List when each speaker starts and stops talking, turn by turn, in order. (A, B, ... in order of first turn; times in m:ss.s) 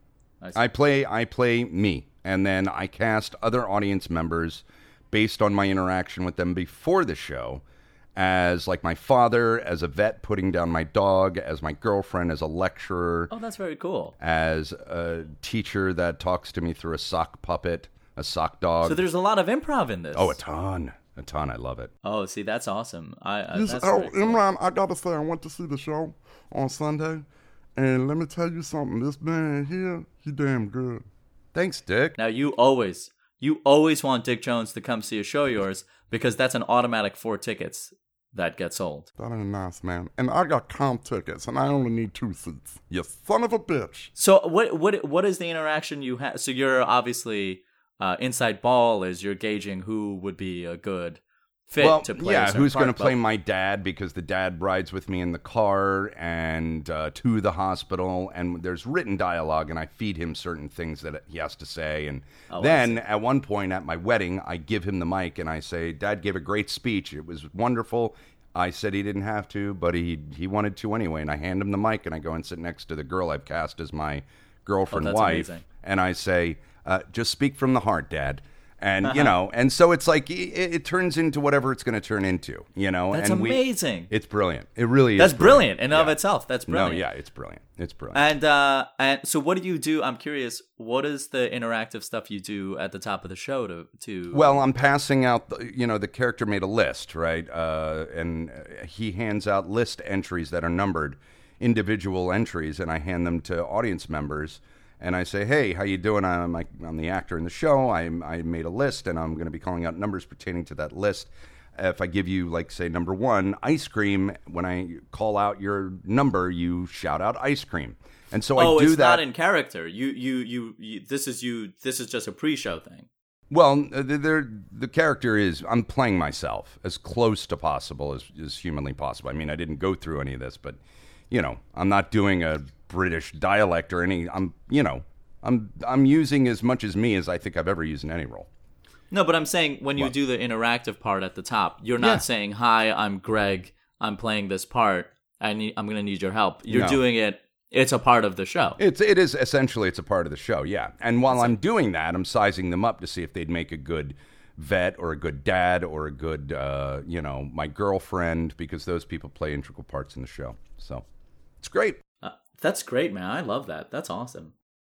0:00.5-0:07.6 A
0:08.2-0:13.3 A
0:13.3-0:14.1 B
0:14.2-0:19.0 A
0:18.8-0:20.4 B
0:20.1-0:21.9 A
0:22.0-0:24.4 B
0:23.5-0:31.0 C
0:31.5-0:32.2 A
0:32.2-0:39.1 B
0:39.2-0:44.1 C
0:44.2-0:53.1 B
0:51.8-1:28.2 A
1:02.5-1:03.0 B
1:14.9-1:15.6 B
1:19.0-1:19.3 B
1:23.1-1:24.1 B
1:25.2-1:27.0 B
1:28.1-1:34.6 B
1:34.3-1:59.2 A
1:58.6-2:03.1 B
2:03.5-2:10.8 A
2:11.3-2:18.5 A
2:19.1-2:28.8 B
2:22.0-2:22.2 A
2:26.7-2:27.0 A
2:28.8-2:41.0 A
2:41.6-2:42.0 A
2:42.2-2:44.5 B